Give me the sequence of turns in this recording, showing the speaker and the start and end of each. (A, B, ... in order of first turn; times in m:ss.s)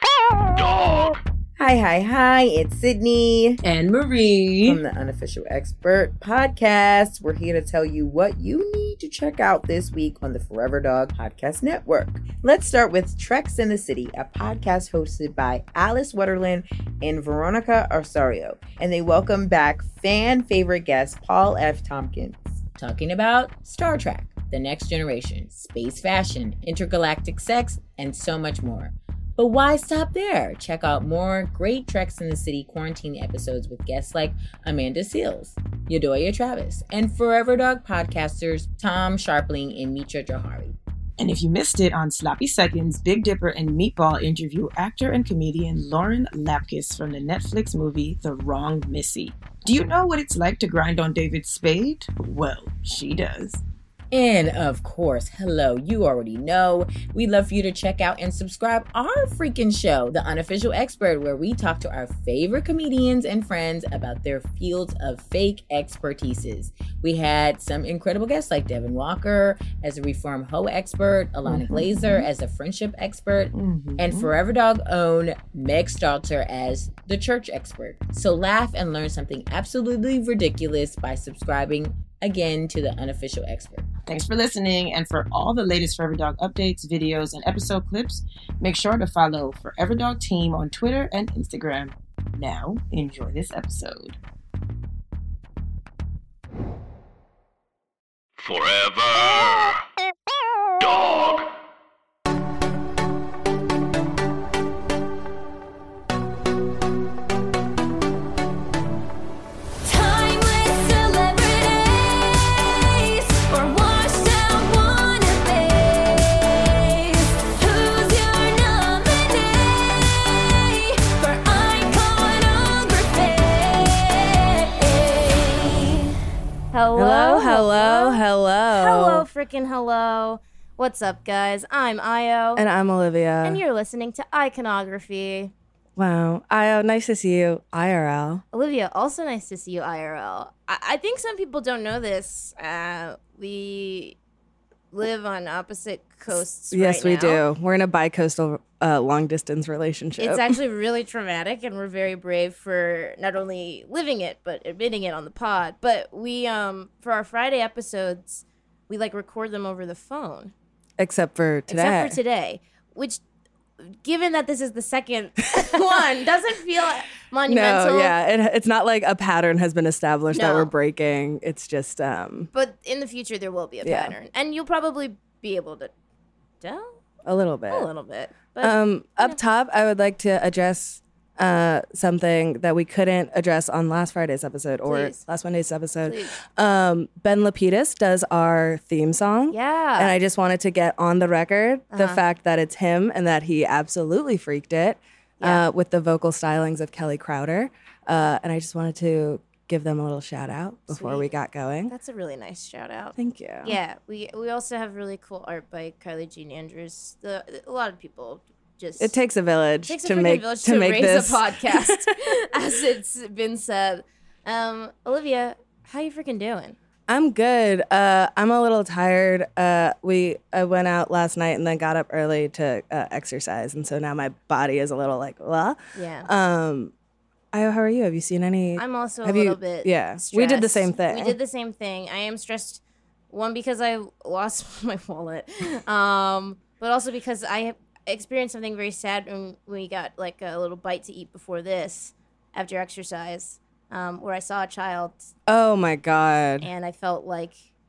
0:00.5-0:01.2 A
0:01.6-0:03.6 B
0:04.3-0:04.8 C
0:04.6-0:40.8 B
0:41.2-0:53.6 C
0:54.1-1:23.9 B
1:11.4-1:12.3 C
1:13.5-1:14.3 C
1:24.1-1:34.2 C
1:38.4-1:39.8 A
1:40.8-1:41.5 A
1:49.8-2:06.1 D
2:06.7-2:08.2 D
2:07.0-2:09.3 E
2:08.7-2:12.6 D
2:12.6-2:13.6 E
2:13.4-2:15.5 D
2:16.0-2:18.4 E
2:18.5-2:24.2 D
2:24.9-2:27.4 D
2:26.7-2:30.5 E
2:30.2-2:40.5 D
2:41.0-2:42.2 E
2:41.7-2:43.2 D
2:44.0-2:48.1 D
2:47.4-2:52.5 E
2:50.3-2:50.7 D
2:52.5-2:55.9 D
2:53.8-2:54.1 E
2:56.6-2:57.0 D
2:57.2-2:57.9 E
2:57.7-2:59.4 D
2:58.6-3:21.9 E
3:04.8-3:05.2 D
3:06.0-3:06.3 D
3:09.5-3:10.1 D
3:11.9-3:12.2 D
3:20.9-3:21.3 D
3:21.9-3:29.2 D
3:23.2-3:23.8 E
3:29.0-3:32.1 E
3:29.9-3:36.8 D
3:37.1-3:46.9 E
3:45.9-3:46.3 D
3:47.5-3:51.4 E
3:48.8-4:05.3 D
4:05.5-4:06.7 E
4:06.6-4:07.6 D